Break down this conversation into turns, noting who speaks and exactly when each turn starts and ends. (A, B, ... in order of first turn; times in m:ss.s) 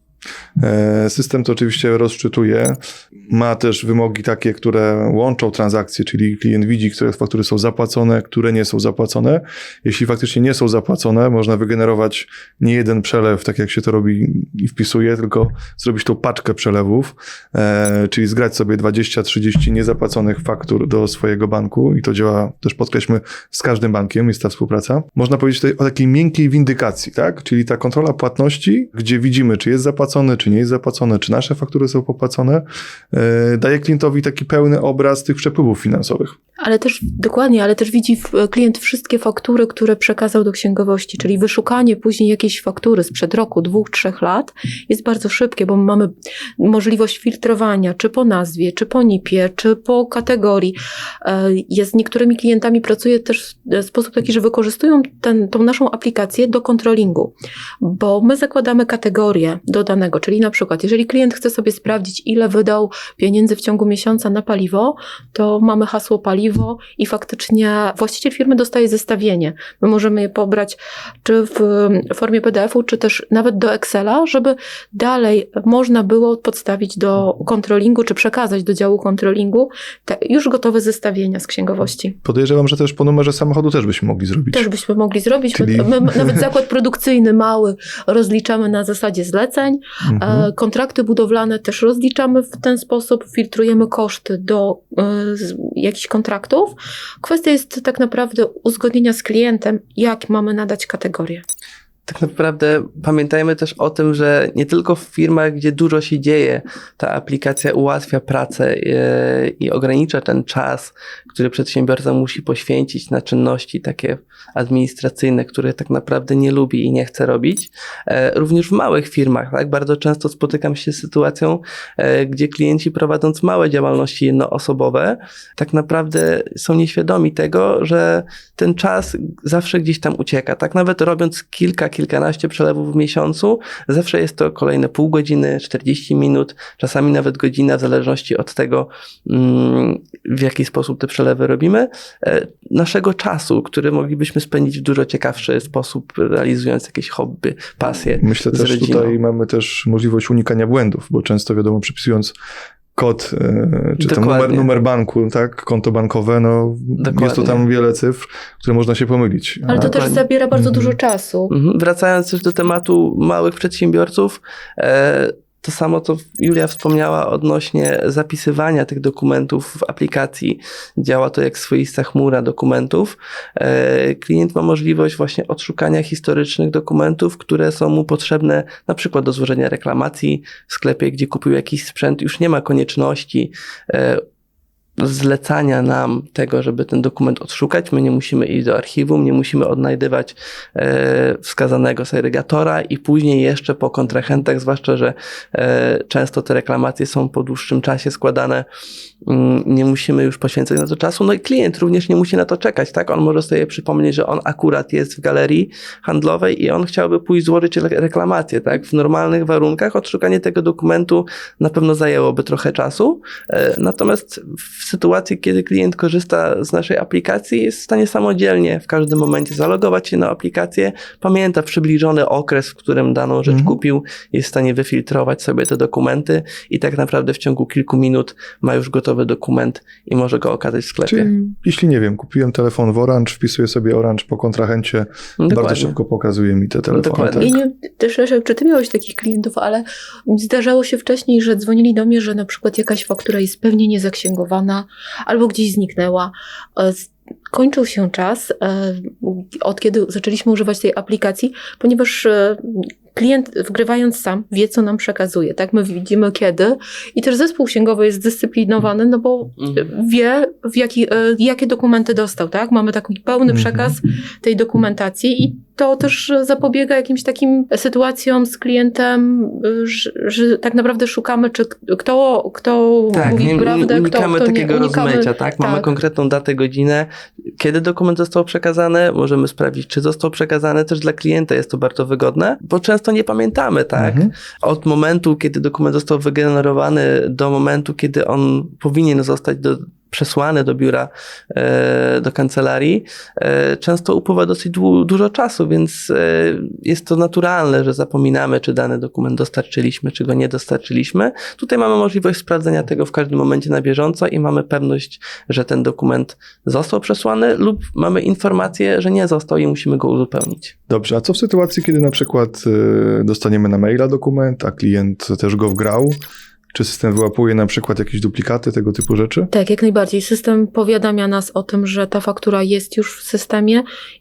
0:00.6-0:36.3 A
0:36.6-1:22.2 B
1:22.2-1:24.7 A
1:24.5-1:41.4 B
1:25.5-1:26.4 A
1:30.0-1:30.5 A
1:42.1-2:29.2 C
2:28.2-2:32.3 A
2:33.0-2:40.0 A
2:34.0-2:34.7 C
2:37.0-2:37.6 C
2:39.7-2:41.5 B
2:39.8-2:40.2 C
2:40.5-2:41.0 A
2:41.5-3:04.2 C
3:05.0-3:18.6 C
3:19.3-3:51.3 C
3:43.5-3:43.7 A
3:51.0-3:57.5 A
3:55.4-3:55.9 C
3:56.9-3:57.5 C
3:57.4-4:35.9 B
4:19.6-4:19.9 C
4:23.5-4:23.9 A
4:33.1-5:10.7 C
4:33.2-4:33.5 A
4:44.0-4:44.3 A
5:10.9-5:16.2 A
5:16.7-5:19.5 A
5:19.5-5:23.8 B